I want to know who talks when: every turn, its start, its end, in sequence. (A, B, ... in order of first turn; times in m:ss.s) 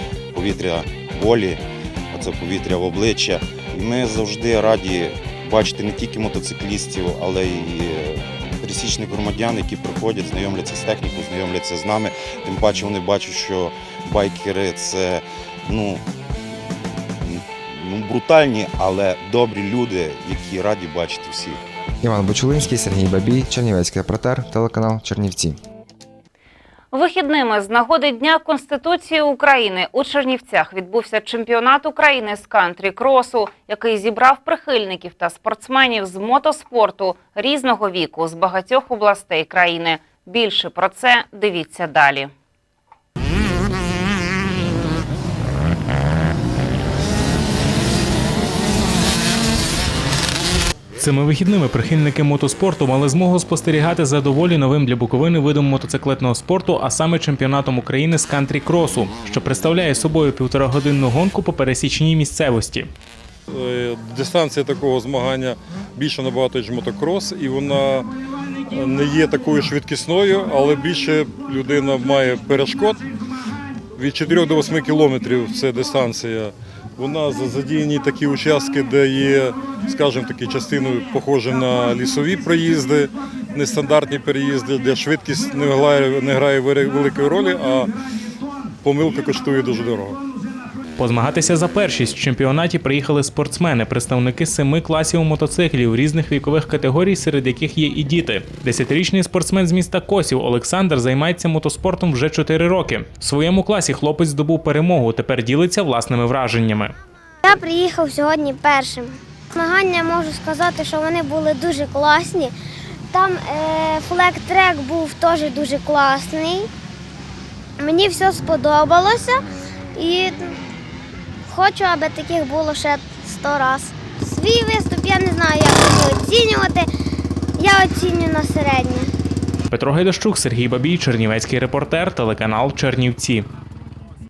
0:00.3-0:21.6 A
0:22.0-0:25.6 B
0:26.9-0:42.3 C
0:51.0-1:02.9 D
1:03.5-1:08.1 E
1:08.7-1:13.0 E
1:14.0-1:27.9 E
1:28.8-1:30.2 E
1:31.0-1:46.9 D
1:47.4-1:52.5 F
1:53.1-1:56.7 F
1:57.8-1:59.4 F
1:59.9-2:00.6 F
2:01.4-2:06.9 F
2:07.6-2:09.1 F
2:09.7-2:13.4 D